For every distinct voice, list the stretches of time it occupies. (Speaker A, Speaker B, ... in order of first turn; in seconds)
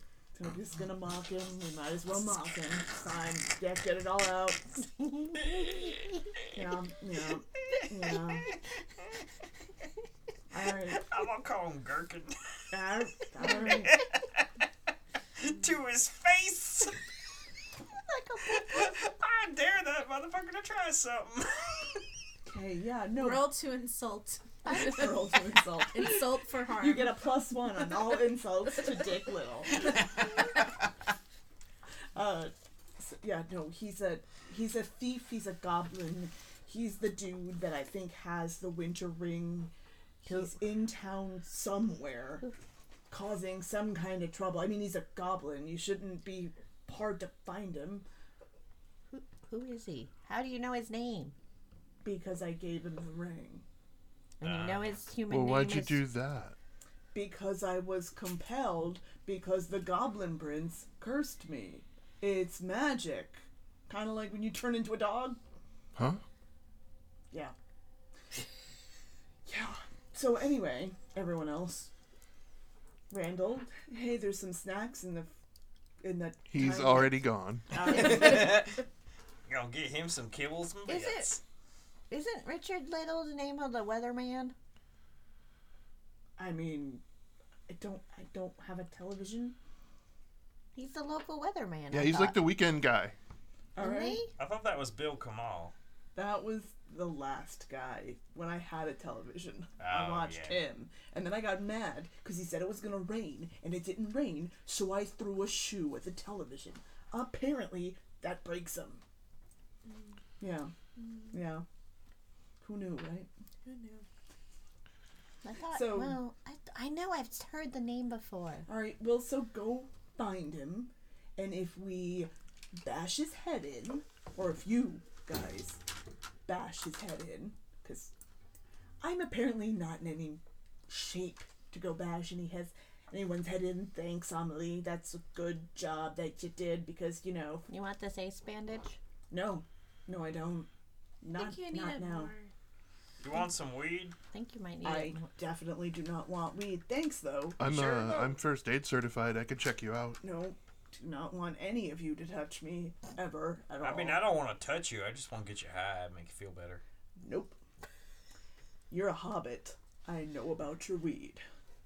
Speaker A: 0.3-4.9, 6.5-8.5, 10.5-11.1, 12.7-14.0, 22.4-23.5, 24.7-30.0, 32.1-39.7, 40.2-42.5, 43.1-48.0, 52.0-53.6, 57.1-65.4, 69.4-71.9, 73.1-75.3, 76.0-78.6, 86.4-87.0, 87.7-89.5, 93.8-94.2, 96.2-109.0, 110.4-110.7, 111.3-111.7, 112.6-113.3, 115.7-116.2, 118.7-125.8, 126.5-128.1, 129.0-137.7, 139.3-140.7, 141.2-142.3, 144.8-148.4, 150.2-154.2, 157.2-157.6, 158.9-161.4
Speaker B: 5.2-6.0, 17.9-19.1, 24.8-25.1, 49.1-51.3, 54.4-56.0, 80.9-81.3, 82.1-84.5, 90.7-92.4, 93.8-94.3, 115.4-118.7, 137.7-139.0, 144.3-145.3
Speaker C: 10.9-12.4, 13.4-14.4, 15.4-17.0, 18.4-22.0, 29.8-30.7, 54.4-55.0, 77.8-78.8, 79.5-81.4, 94.4-95.7, 99.8-100.6, 143.2-144.1, 153.8-156.8
Speaker D: 23.2-25.2, 25.9-27.3, 111.0-111.3, 113.6-114.0, 141.3-142.5
Speaker E: 55.3-56.5, 65.9-66.2, 76.5-77.7, 91.9-93.2, 147.6-150.2